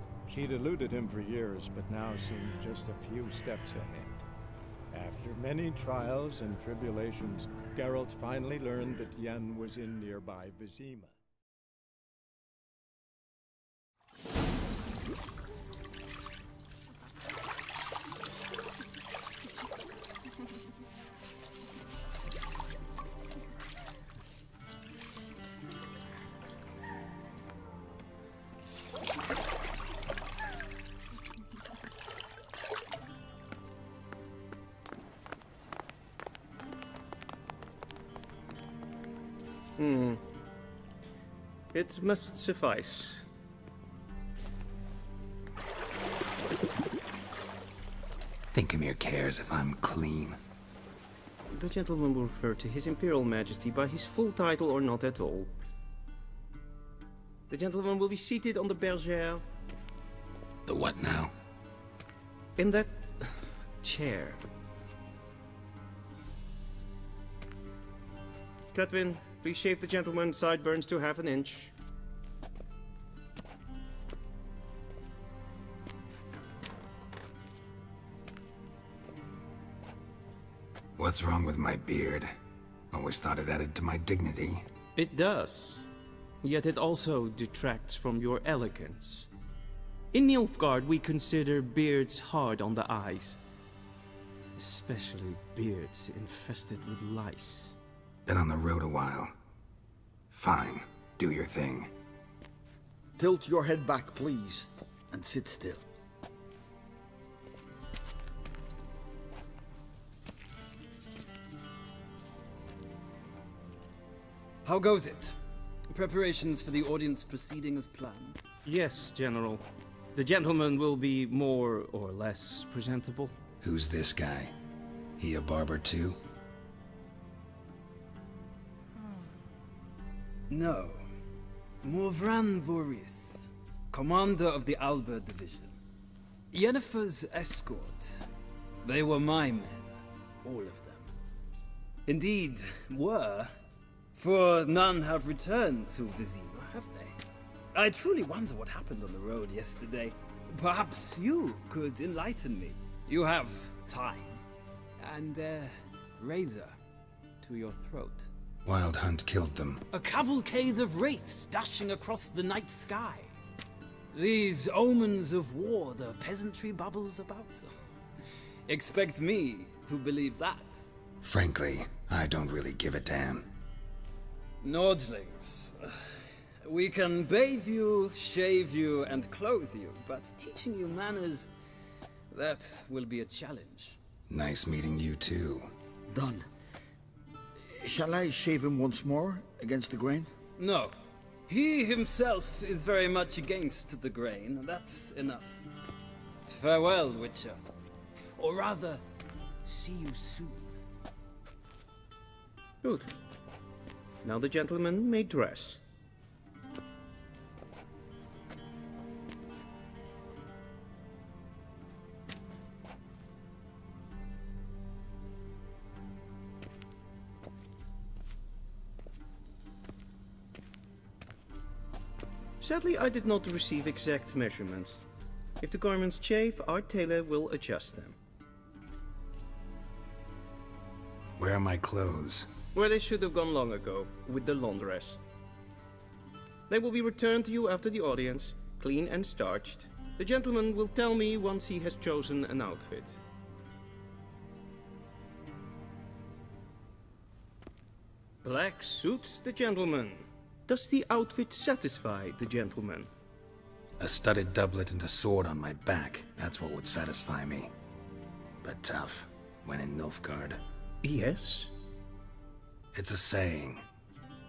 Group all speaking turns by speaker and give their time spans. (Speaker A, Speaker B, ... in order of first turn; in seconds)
Speaker A: 0.3-4.2, 4.9-11.1
Speaker B: 39.8-40.2, 41.7-43.3, 51.5-55.5, 57.5-59.4, 62.6-64.4, 68.7-71.7, 85.0-85.9, 86.4-89.3, 90.1-93.4, 94.5-97.8, 118.7-119.6, 120.1-123.3, 202.8-203.1, 204.2-205.8, 222.6-225.0, 225.6-228.2, 232.7-235.2, 236.7-243.2, 248.4-253.1, 261.0-261.7
Speaker C: 48.5-50.4, 60.6-61.3, 81.0-82.3, 82.9-84.6, 98.2-99.3, 100.3-101.9, 123.6-124.5, 125.2-126.2, 158.6-159.8, 171.2-173.5, 184.3-185.7, 231.4-232.5, 254.0-257.7, 258.6-260.6, 262.9-263.8
Speaker D: 103.2-105.8, 186.1-186.4, 187.7-190.3
Speaker E: 114.6-115.3, 115.9-118.4, 130.5-131.0, 131.8-135.7, 136.5-138.2, 138.8-141.1, 142.1-143.5, 144.1-147.2, 147.7-154.4, 155.0-156.7, 157.4-158.3, 159.9-163.3, 164.1-167.8, 168.7-170.8, 174.6-181.5, 182.3-184.0, 190.6-190.9, 191.5-195.7, 196.4-197.6, 198.3-199.0, 199.6-200.7